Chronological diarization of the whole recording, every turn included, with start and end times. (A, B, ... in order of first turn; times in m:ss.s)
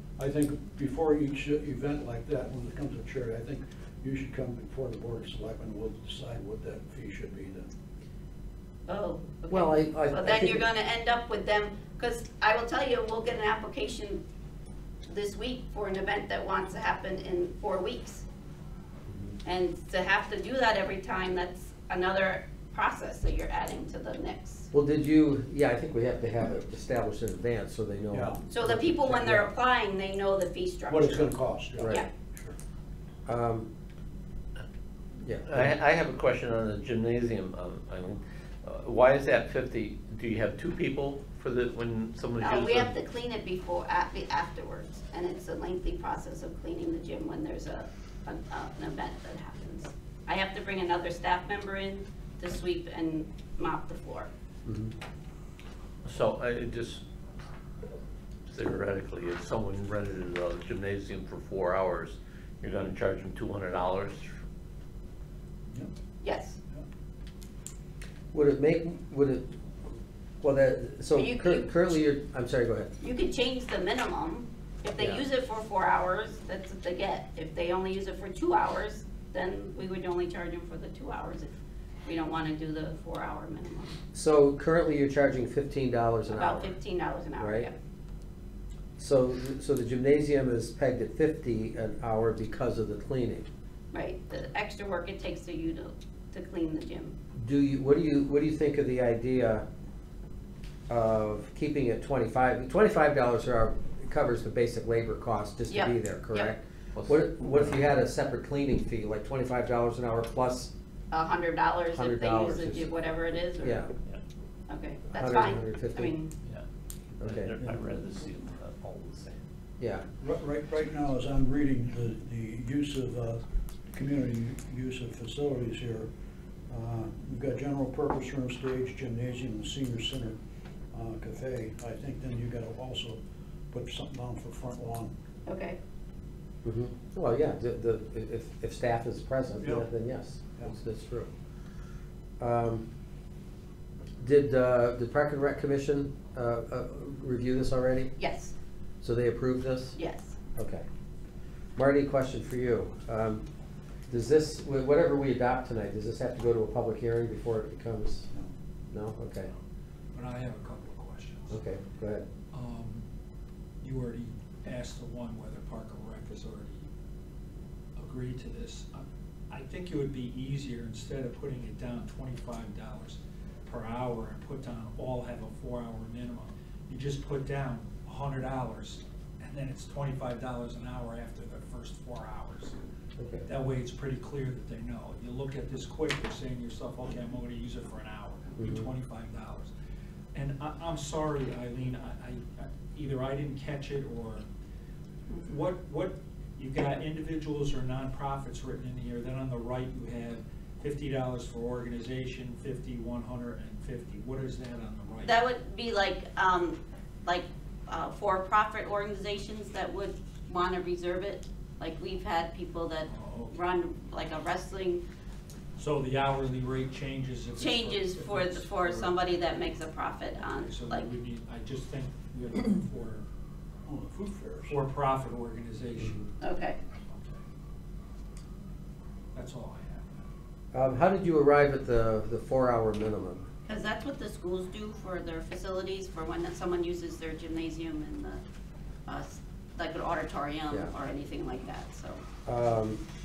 0:00.2-0:07.7 A
0:08.9-0:14.2 B
0:09.5-0:10.7 C
0:15.1-0:18.2 B
0:19.1-0:19.3 C
0:19.4-0:24.7 B
0:24.7-0:29.1 C
0:28.1-0:28.4 A
0:28.5-0:32.1 B
0:29.1-0:29.4 A
0:30.9-0:32.5 A
0:31.8-0:32.0 C
0:33.3-0:33.7 C
0:35.2-0:35.7 C
0:35.4-0:42.9 D
0:42.4-0:54.3 B
0:54.6-0:54.9 C
0:56.0-0:57.0 D
0:58.5-1:04.3 D
1:06.2-1:06.6 B
1:08.3-1:09.6 C
1:10.4-1:12.9 C
1:11.2-1:11.8 B
1:13.0-1:21.5 B
1:15.0-1:15.2 C
1:22.0-1:24.0 B
1:24.1-1:26.7 C
1:26.3-1:27.7 B
1:27.4-1:27.7 C
1:29.0-1:33.4 C
1:33.9-1:37.2 B
1:37.4-1:39.6 C
1:40.9-1:50.7 C
1:45.7-1:46.6 B
1:46.9-1:47.8 D
1:51.1-1:53.9 B
1:51.9-1:52.9 C
1:53.6-1:53.9 C
1:54.7-1:56.3 B
1:55.1-1:56.2 C
1:57.2-1:59.4 D
1:57.2-1:57.6 C
1:59.8-2:00.0 C
2:00.2-2:03.4 A
2:03.9-2:06.1 A
2:06.7-2:10.4 A
2:10.9-2:13.2 A
2:13.7-2:15.1 A
2:15.5-2:15.8 B
2:16.6-2:21.3 C
2:22.4-2:22.9 C
2:24.2-2:28.2 C
2:28.2-2:28.5 B
2:29.0-2:30.0 C
2:30.0-2:30.4 B
2:30.6-2:30.8 C
2:31.8-2:33.4 C
2:34.1-2:38.3 C
2:38.9-2:39.5 C
2:40.1-2:41.6 E
2:41.5-2:42.3 C
2:42.5-2:43.0 E
2:43.8-2:46.9 E
2:48.0-3:02.8 E
3:03.2-3:03.5 C
3:03.5-3:09.7 E
3:08.6-3:08.8 C
3:10.3-3:14.5 E
3:15.4-3:25.4 E
3:25.2-3:35.0 B
3:33.1-3:33.6 E
3:35.8-3:39.2 E
3:37.6-3:41.1 B
3:40.5-3:43.3 E
3:43.9-3:44.7 A
3:44.7-3:47.4 E
3:46.4-3:46.8 B
3:49.3-3:50.2 E
3:50.7-3:53.5 C
3:53.6-3:58.4 B
3:59.1-4:02.2 B
4:02.5-4:03.0 C